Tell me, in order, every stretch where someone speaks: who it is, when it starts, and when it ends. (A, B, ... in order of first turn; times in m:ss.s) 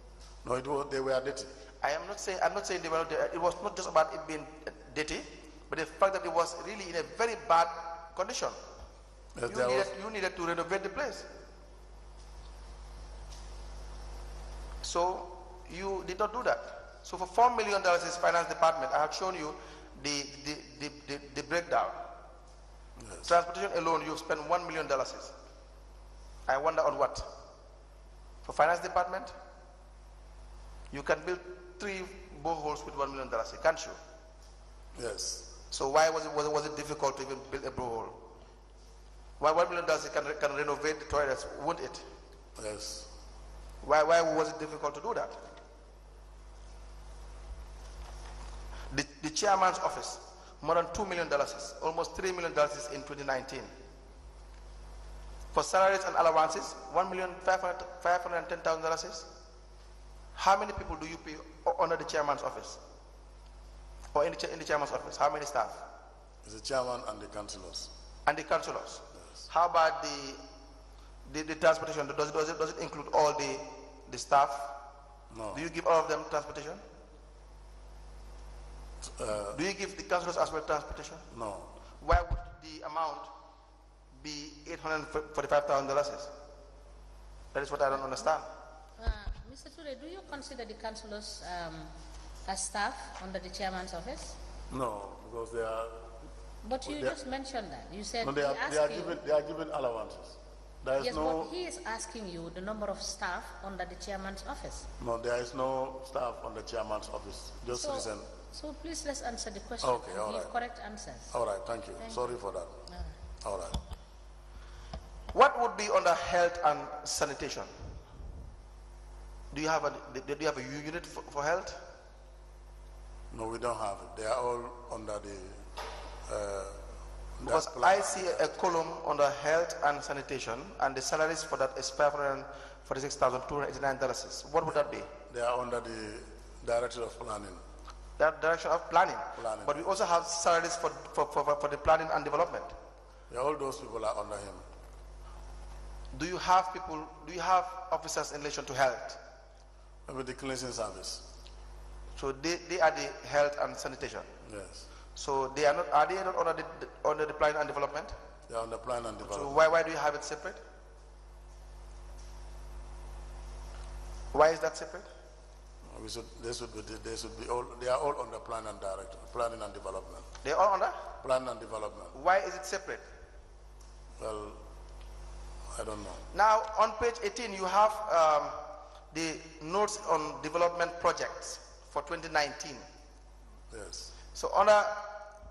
0:00.4-0:01.5 A
0:01.8-0:08.6 B
0:09.3-0:09.9 A
0:09.5-0:11.3 B
0:14.8-0:22.0 B
0:23.0-0:23.3 A
0:23.2-0:25.3 B
0:26.5-0:27.3 B
0:28.4-0:29.3 B
0:30.9-0:34.0 B
0:34.9-0:35.5 A
0:35.7-0:38.2 B
0:39.4-0:42.0 B
0:42.6-0:43.1 A
0:43.8-0:45.4 B
0:48.9-0:53.7 B
0:55.5-0:59.3 B
1:00.4-1:02.8 B
1:04.1-1:05.8 B
1:06.4-1:07.9 A
1:08.2-1:10.4 B
1:11.2-1:14.7 B
1:15.3-1:15.6 A
1:15.5-1:16.8 B
1:19.0-1:19.6 A
1:19.5-1:21.2 B
1:21.3-1:21.7 A
1:22.0-1:23.3 B
1:24.1-1:26.3 B
1:27.5-1:28.5 B
1:29.0-1:31.9 C
1:32.4-1:34.4 C
1:34.7-1:36.1 A
1:36.6-1:39.2 C
1:36.8-1:37.2 A
1:38.2-1:41.5 A
1:41.0-1:44.9 C
1:45.0-1:48.3 A
1:47.7-1:51.3 C
1:49.8-1:50.5 A
1:51.3-1:52.7 A
1:52.0-1:52.3 C
1:52.9-1:53.2 C
1:53.4-1:53.8 A
1:55.3-1:57.7 B
1:59.5-2:01.8 B
2:03.3-2:05.6 A
2:06.2-2:08.5 A
2:07.4-2:15.1 B
2:15.3-2:17.6 A
2:18.2-2:22.7 B
2:19.3-2:19.8 A
2:23.3-2:24.6 A
2:26.1-2:29.2 B
2:30.1-2:31.2 A
2:32.2-2:34.3 B
2:34.4-2:34.9 A
2:35.1-2:38.1 B
2:38.5-2:39.6 A
2:39.2-2:40.6 B
2:44.3-2:45.1 B
2:45.9-2:50.3 A
2:50.4-2:51.0 B
2:51.2-2:52.2 A
2:52.1-2:53.0 B
2:54.2-2:54.6 A
2:55.7-2:56.3 A
2:56.3-3:02.8 B
3:03.7-3:04.1 A
3:04.3-3:05.2 B